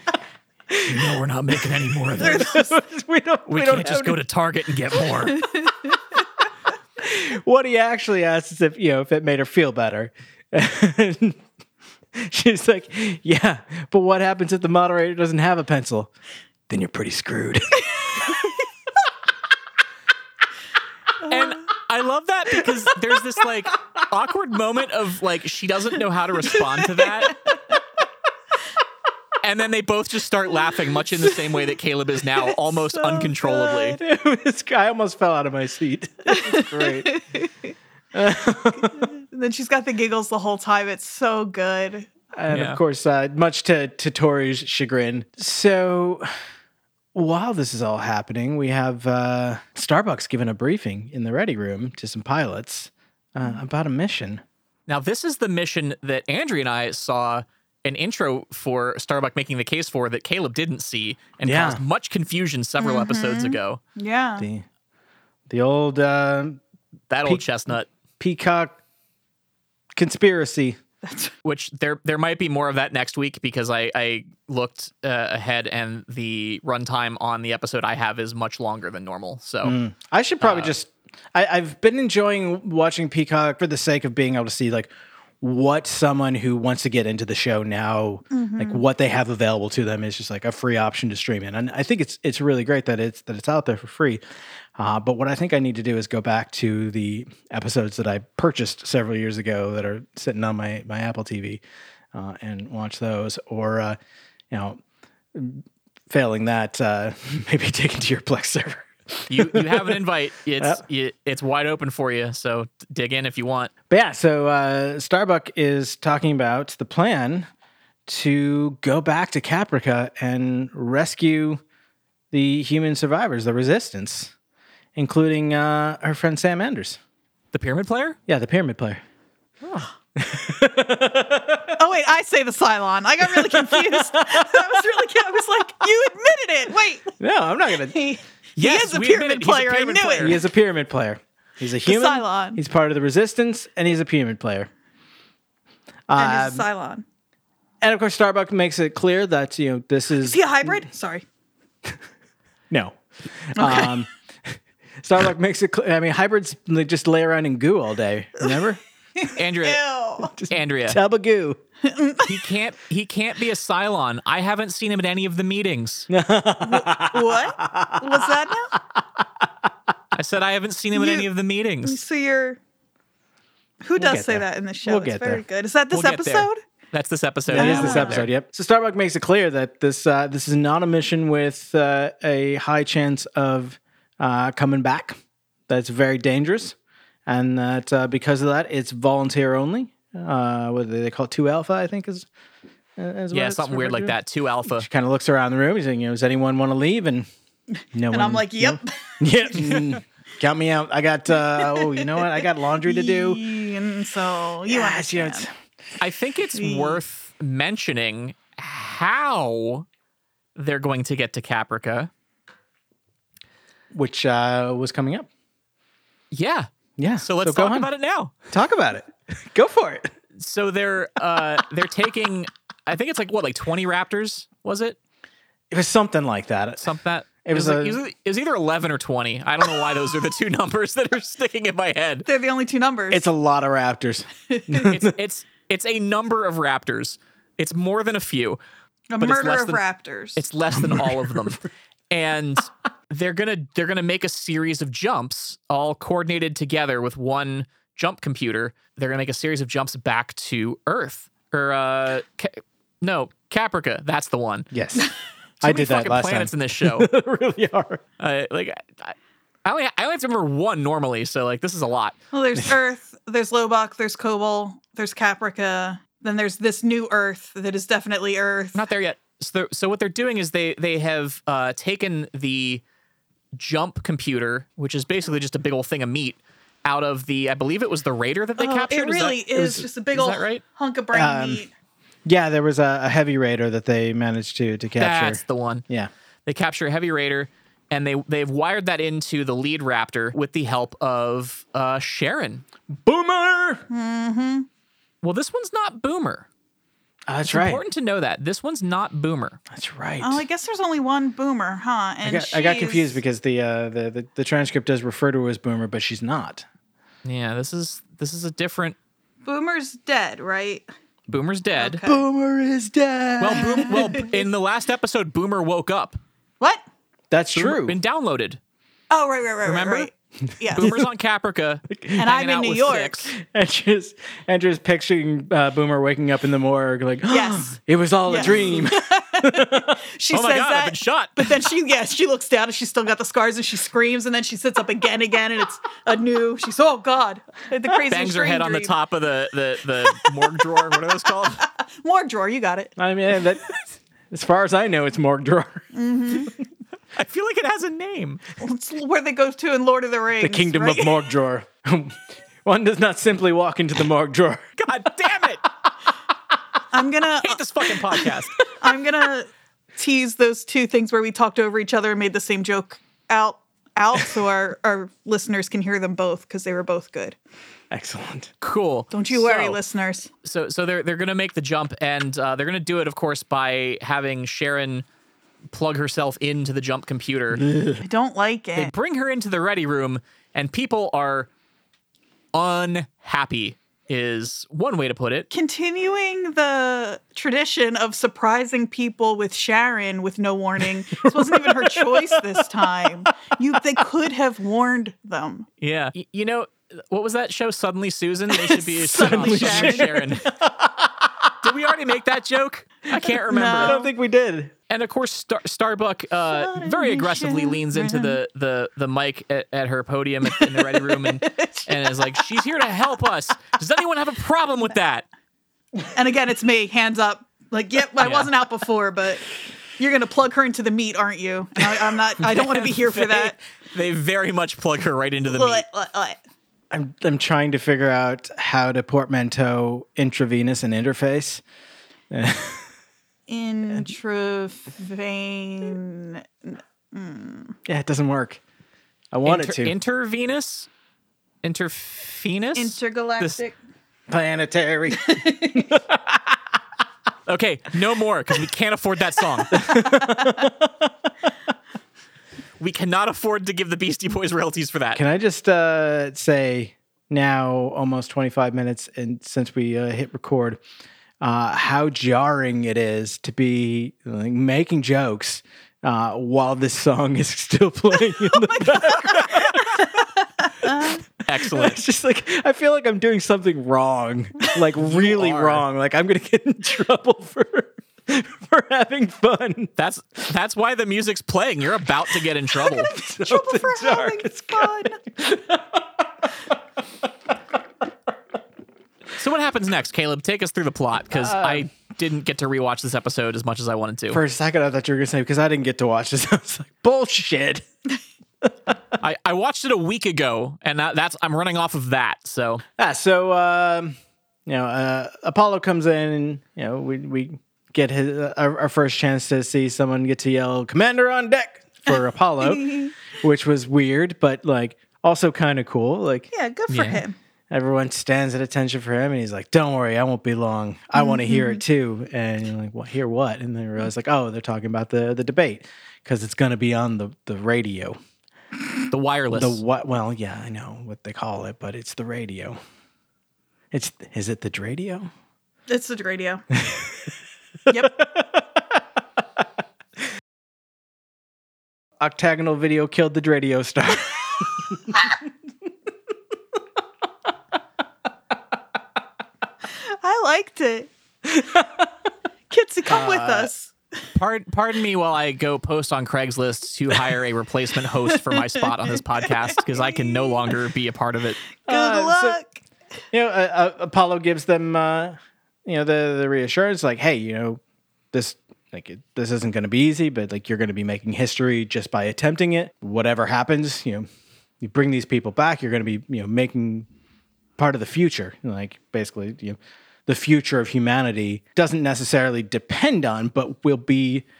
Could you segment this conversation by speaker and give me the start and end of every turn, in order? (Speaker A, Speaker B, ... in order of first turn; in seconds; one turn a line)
Speaker A: 0.7-4.2
Speaker B: 0.9-2.6
Speaker C: 2.2-2.6
Speaker B: 3.5-5.4
Speaker C: 5.4-6.0
Speaker A: 7.0-11.4
Speaker A: 12.1-16.1
Speaker A: 16.7-18.5
Speaker B: 21.3-27.4
Speaker B: 29.4-34.0
Speaker C: 32.7-33.8
Speaker A: 33.8-37.1
Speaker C: 36.3-37.7
Speaker A: 38.1-39.1
Speaker C: 39.2-42.1
Speaker A: 42.3-46.3
Speaker B: 42.5-42.8
Speaker A: 47.1-54.4
Speaker B: 54.9-63.8
Speaker A: 61.4-61.8
Speaker C: 62.8-64.5
Speaker A: 64.4-64.7
Speaker A: 65.5-66.6
Speaker B: 67.1-67.9
Speaker A: 68.2-68.8
Speaker A: 70.0-70.8
Speaker C: 71.0-71.3
Speaker B: 71.4-79.8
Speaker A: 79.6-94.2
Speaker B: 80.4-80.7
Speaker C: 88.3-88.8
Speaker A: 94.8-101.6
Speaker A: 102.1-104.0
Speaker A: 104.5-104.8
Speaker A: 105.3-110.0
Speaker B: 109.3-113.7
Speaker A: 113.9-117.5
Speaker A: 118.1-121.6
Speaker A: 122.3-124.3
Speaker A: 125.0-127.0
Speaker B: 127.5-128.2
Speaker A: 128.3-129.0
Speaker A: 129.6-131.8
Speaker C: 131.8-137.1
Speaker A: 133.2-134.8
Speaker A: 137.2-138.0
Speaker C: 137.9-140.4
Speaker B: 138.6-140.4
Speaker A: 140.2-144.7
Speaker C: 141.8-142.6
Speaker A: 146.1-146.7
Speaker C: 146.2-147.0
Speaker A: 147.8-150.8
Speaker C: 150.2-151.2
Speaker A: 152.7-158.8
Speaker C: 153.6-154.0
Speaker C: 159.2-160.3
Speaker B: 159.3-159.8
Speaker A: 160.3-161.6
Speaker B: 160.5-161.0
Speaker C: 161.8-162.4
Speaker B: 162.3-166.1
Speaker A: 166.1-168.3
Speaker C: 166.6-168.8
Speaker B: 170.1-172.0
Speaker C: 170.9-171.3
Speaker C: 171.8-172.6
Speaker C: 173.8-176.6
Speaker A: 174.0-175.4
Speaker B: 175.9-178.3
Speaker A: 177.5-186.8
Speaker C: 177.5-178.2
Speaker A: 187.3-192.3
Speaker A: 193.0-197.3
Speaker B: 193.3-194.9
Speaker A: 197.9-203.4
Speaker C: 198.1-199.9
Speaker C: 201.6-205.5
Speaker A: 204.7-205.5
Speaker B: 206.0-209.9
Speaker C: 206.6-207.0
Speaker B: 210.6-212.1
Speaker A: 213.9-215.3
Speaker B: 216.3-216.7
Speaker A: 217.0-217.9
Speaker B: 217.2-218.3
Speaker A: 218.5-220.1
Speaker B: 220.4-225.0
Speaker A: 225.7-226.9
Speaker B: 226.8-232.3
Speaker A: 227.4-228.0
Speaker C: 232.3-233.3
Speaker A: 233.1-235.2
Speaker C: 234.5-234.8
Speaker B: 234.8-238.6
Speaker C: 239.1-240.4
Speaker B: 239.2-239.8
Speaker B: 240.4-254.7
Speaker A: 240.8-241.6
Speaker A: 254.7-255.1
Speaker A: 255.6-258.0
Speaker B: 255.6-257.1
Speaker B: 258.2-262.1
Speaker C: 262.3-268.8
Speaker B: 268.8-272.8
Speaker B: 273.6-279.5
Speaker C: 278.6-281.7
Speaker A: 279.5-279.9
Speaker B: 280.1-280.6
Speaker A: 281.1-281.6
Speaker A: 282.2-286.1
Speaker B: 285.0-285.8
Speaker B: 286.4-292.6
Speaker A: 292.9-293.8
Speaker C: 293.9-294.7
Speaker B: 295.2-296.4
Speaker A: 297.3-297.8
Speaker B: 297.4-299.6
Speaker A: 299.7-300.4
Speaker C: 300.2-303.2
Speaker A: 302.2-306.6
Speaker B: 307.2-308.9
Speaker C: 309.4-310.9
Speaker B: 311.3-312.0
Speaker C: 311.8-312.2
Speaker A: 312.0-314.2
Speaker B: 313.4-316.2
Speaker C: 313.6-314.2
Speaker A: 317.3-318.0
Speaker B: 317.6-318.6
Speaker C: 319.1-321.0
Speaker B: 319.6-320.1
Speaker B: 320.7-323.3
Speaker A: 321.9-322.2
Speaker C: 322.2-323.2
Speaker A: 323.3-330.0
Speaker C: 327.3-338.9
Speaker B: 330.3-331.5
Speaker B: 338.1-341.6
Speaker C: 342.0-342.9
Speaker A: 343.0-343.7
Speaker A: 344.3-345.9
Speaker C: 345.9-346.5
Speaker B: 347.1-348.4
Speaker C: 348.6-351.3
Speaker A: 350.4-354.7
Speaker B: 354.8-355.6
Speaker C: 356.9-357.6
Speaker B: 357.4-358.6
Speaker C: 358.8-367.4
Speaker A: 367.9-368.5
Speaker B: 368.6-369.8
Speaker C: 369.1-370.3
Speaker B: 370.4-375.1
Speaker B: 375.7-377.6
Speaker A: 377.5-378.0
Speaker C: 378.0-378.9
Speaker B: 378.8-381.5
Speaker B: 382.5-385.5
Speaker C: 385.5-395.7
Speaker A: 391.1-393.3
Speaker B: 395.8-400.5
Speaker C: 398.6-400.1
Speaker A: 399.1-401.3
Speaker B: 401.6-404.0
Speaker C: 403.5-404.1
Speaker A: 403.5-404.7
Speaker B: 404.9-415.3
Speaker C: 406.6-408.4
Speaker C: 416.1-419.5
Speaker B: 418.2-418.5
Speaker C: 420.0-423.6
Speaker B: 422.5-425.8
Speaker C: 425.5-426.4
Speaker A: 426.9-431.6
Speaker A: 432.3-432.9
Speaker C: 433.5-437.8
Speaker A: 437.9-438.6
Speaker A: 439.3-439.9
Speaker B: 439.4-440.9
Speaker B: 441.6-443.6
Speaker C: 442.8-443.8
Speaker A: 444.3-446.6
Speaker C: 445.1-445.9
Speaker B: 447.5-449.8
Speaker A: 449.7-451.1
Speaker C: 450.2-450.6
Speaker B: 452.8-455.2
Speaker A: 455.1-460.8
Speaker A: 461.4-470.1
Speaker C: 469.1-469.6
Speaker C: 470.6-471.2
Speaker B: 471.4-472.0
Speaker A: 471.7-479.9
Speaker B: 475.0-475.8
Speaker B: 480.0-483.1
Speaker A: 483.1-486.5
Speaker C: 483.1-485.2
Speaker B: 489.4-494.4
Speaker A: 491.3-491.9
Speaker A: 494.3-497.9
Speaker B: 499.2-502.8
Speaker A: 503.0-504.1
Speaker A: 504.6-516.5
Speaker C: 512.1-513.1
Speaker C: 516.5-517.4
Speaker B: 516.9-517.2
Speaker A: 517.7-528.2
Speaker C: 521.1-521.8
Speaker B: 529.1-529.8
Speaker A: 529.5-532.8
Speaker A: 533.9-535.3
Speaker C: 535.9-536.6
Speaker A: 536.8-537.1
Speaker C: 537.9-538.2
Speaker A: 537.9-538.8
Speaker A: 542.2-545.2
Speaker C: 550.0-551.1
Speaker A: 551.5-552.1
Speaker C: 552.7-553.9
Speaker A: 553.1-553.7
Speaker B: 554.3-561.6
Speaker C: 559.9-560.6
Speaker C: 561.9-562.8
Speaker A: 561.9-562.6
Speaker A: 563.3-567.8
Speaker A: 568.3-574.3
Speaker A: 574.8-577.1
Speaker A: 577.8-584.5